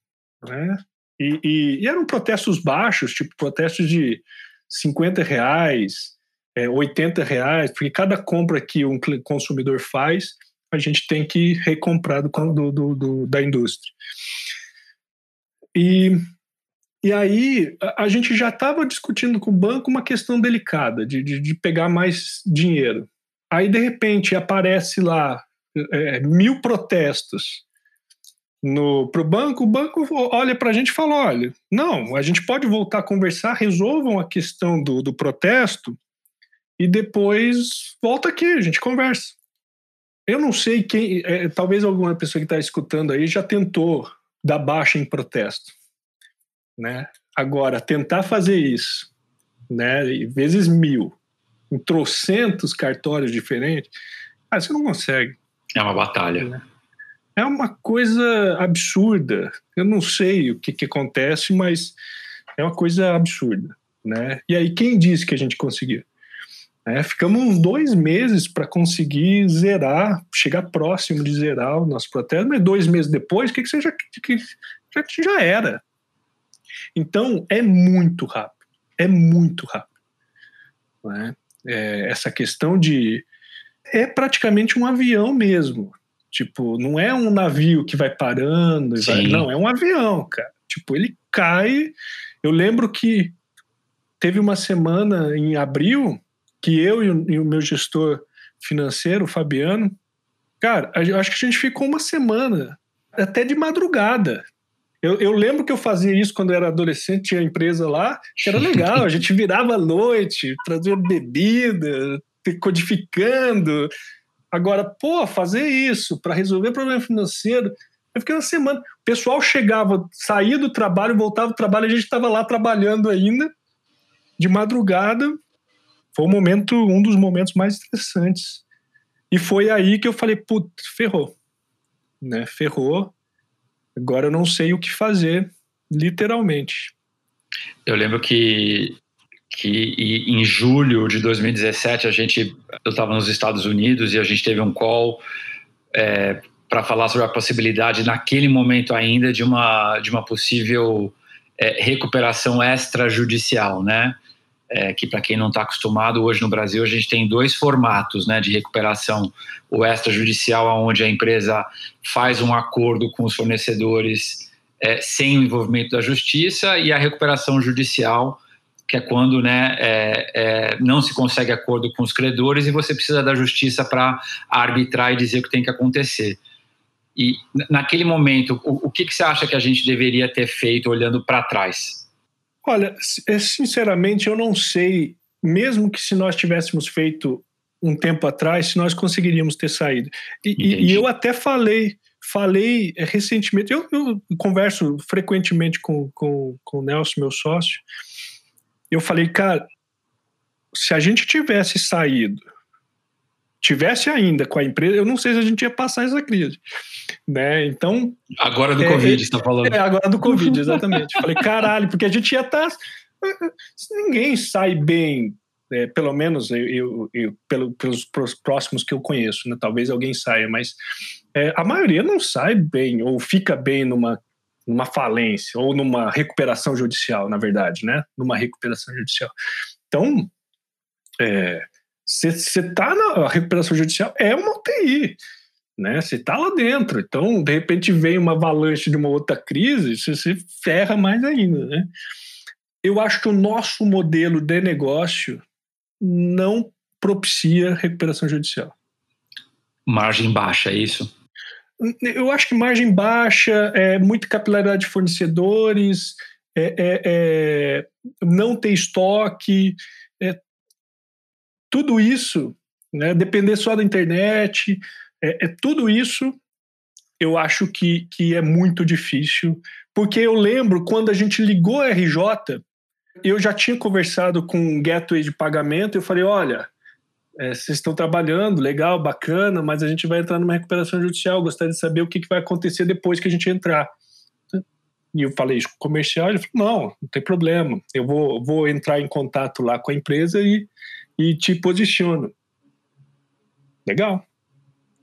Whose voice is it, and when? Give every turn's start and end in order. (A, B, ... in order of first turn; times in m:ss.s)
0:00.4-0:14.0 A
0:15.8-0:16.2 A
0:17.0-0:27.6 A
0:28.6-0:36.0 A
0:36.8-0:39.4 A
0:40.3-0:45.8 A
0:46.8-0:49.1 A
0:49.7-0:51.2 A
0:51.7-0:53.9 A
0:54.5-0:55.4 A
0:55.8-0:56.5 B
0:57.4-1:02.0 A
1:02.6-1:06.1 A
1:06.9-1:15.8 A
1:17.0-1:19.9 A
1:21.0-1:23.3 A
1:23.9-1:33.4 A
1:29.0-1:29.5 B
1:34.2-1:40.0 A
1:40.6-1:44.5 A
1:45.0-1:53.9 A
1:54.5-2:03.5 A
2:04.4-2:05.4 A
2:06.1-2:08.6 A
2:09.3-2:11.4 A
2:12.2-2:13.1 A
2:14.0-2:16.9 A
2:17.9-2:19.0 B
2:19.5-2:25.2 B
2:25.9-2:34.2 B
2:34.7-2:56.4 B
2:57.2-3:02.1 B
3:02.6-3:17.8 A
3:10.6-3:11.0 B
3:18.9-3:19.7 A
3:20.7-3:22.4 A
3:23.6-3:26.6 A
3:27.3-3:28.2 A
3:28.4-3:30.8 B
3:28.8-3:40.8 A
3:41.3-3:49.3 A
3:49.9-3:50.3 A
3:51.2-3:55.2 A
3:55.8-4:01.9 A
4:02.8-4:05.4 A
4:06.0-4:08.7 A
4:09.9-4:11.1 B
4:11.8-4:20.4 A
4:21.7-4:26.4 A
4:27.2-4:32.6 A
4:33.2-4:36.7 A
4:37.4-4:43.9 A
4:45.1-4:52.3 A
4:53.9-4:54.2 A